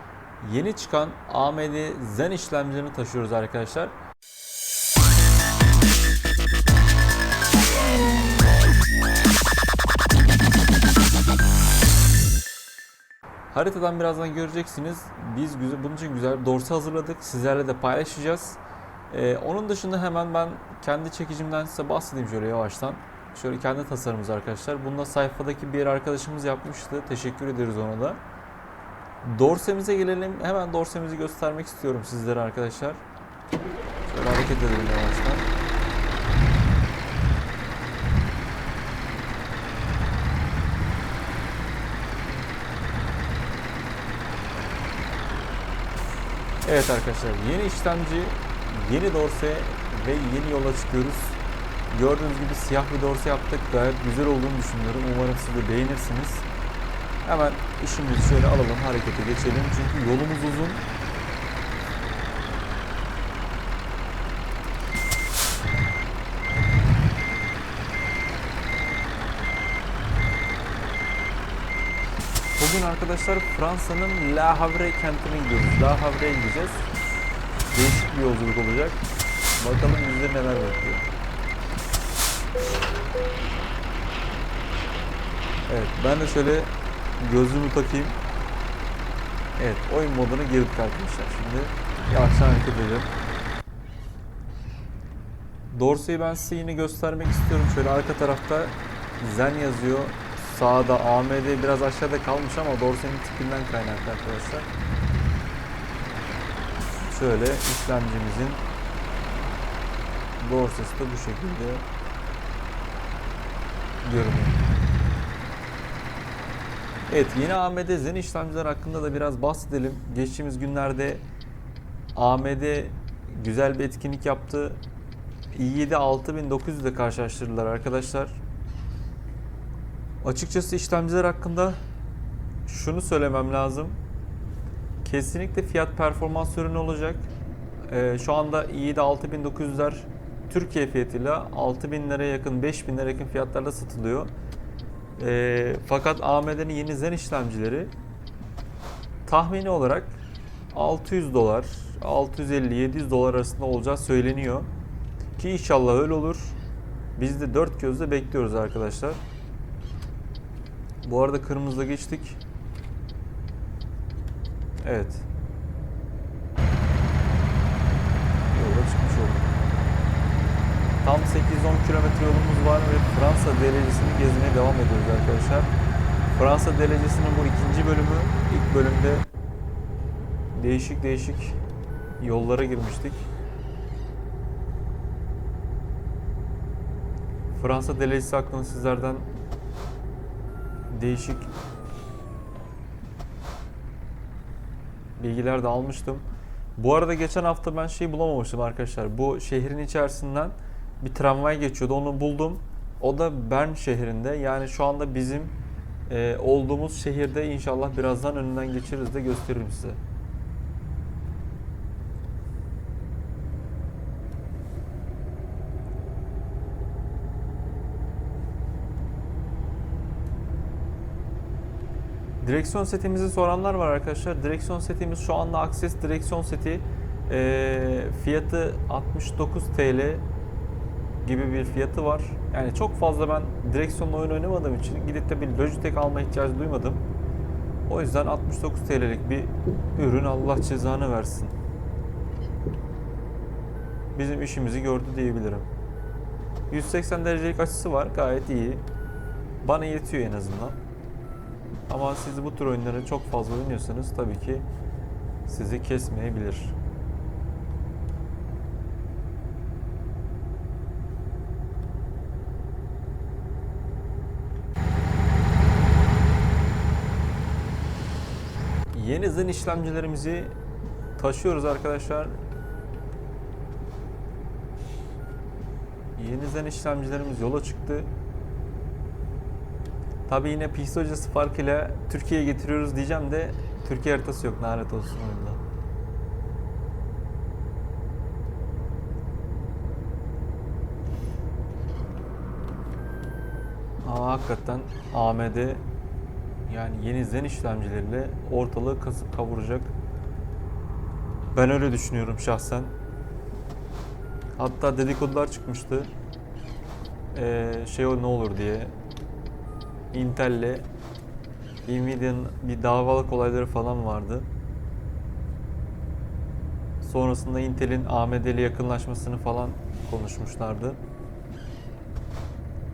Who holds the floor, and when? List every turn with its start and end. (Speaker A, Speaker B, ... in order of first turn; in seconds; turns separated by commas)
Speaker A: 0.4-3.9, Speaker A: 13.5-28.2, Speaker A: 29.2-33.0, Speaker A: 34.0-35.5, Speaker A: 46.6-51.4, Speaker A: 51.9-56.5, Speaker A: 57.2-60.8, Speaker A: 72.6-76.9, Speaker A: 77.7-79.0, Speaker A: 79.5-81.1, Speaker A: 85.7-88.2, Speaker A: 89.5-93.1, Speaker A: 95.7-104.7, Speaker A: 107.1-108.6, Speaker A: 110.4-111.8, Speaker A: 114.0-114.6, Speaker A: 117.1-121.2, Speaker A: 122.1-124.8, Speaker A: 125.5-128.4, Speaker A: 130.2-131.8, Speaker A: 132.7-134.0, Speaker A: 135.0-137.3, Speaker A: 137.9-144.3, Speaker A: 145.2-147.9, Speaker A: 149.2-150.2, Speaker A: 150.7-154.7, Speaker A: 155.4-156.6, Speaker A: 157.2-159.2, Speaker A: 161.0-162.4, Speaker A: 164.8-165.2, Speaker A: 168.5-169.5, Speaker A: 171.0-175.7, Speaker A: 176.3-179.2, Speaker A: 180.5-181.6, Speaker A: 182.2-183.2, Speaker A: 187.5-189.3, Speaker A: 190.9-191.5, Speaker A: 195.2-205.5, Speaker A: 206.1-210.0, Speaker A: 222.4-230.2, Speaker A: 231.2-237.1, Speaker A: 237.9-241.5, Speaker A: 244.1-245.7, Speaker A: 246.7-248.8, Speaker A: 249.6-250.8, Speaker A: 251.9-254.7, Speaker A: 255.4-256.8, Speaker A: 268.9-270.6, Speaker A: 271.2-272.4, Speaker A: 276.1-278.1, Speaker A: 280.3-285.6, Speaker A: 294.0-295.8, Speaker A: 296.6-299.9, Speaker A: 301.5-302.9, Speaker A: 304.6-306.1, Speaker A: 307.3-308.9, Speaker A: 310.1-310.9, Speaker A: 311.8-314.5, Speaker A: 317.0-321.0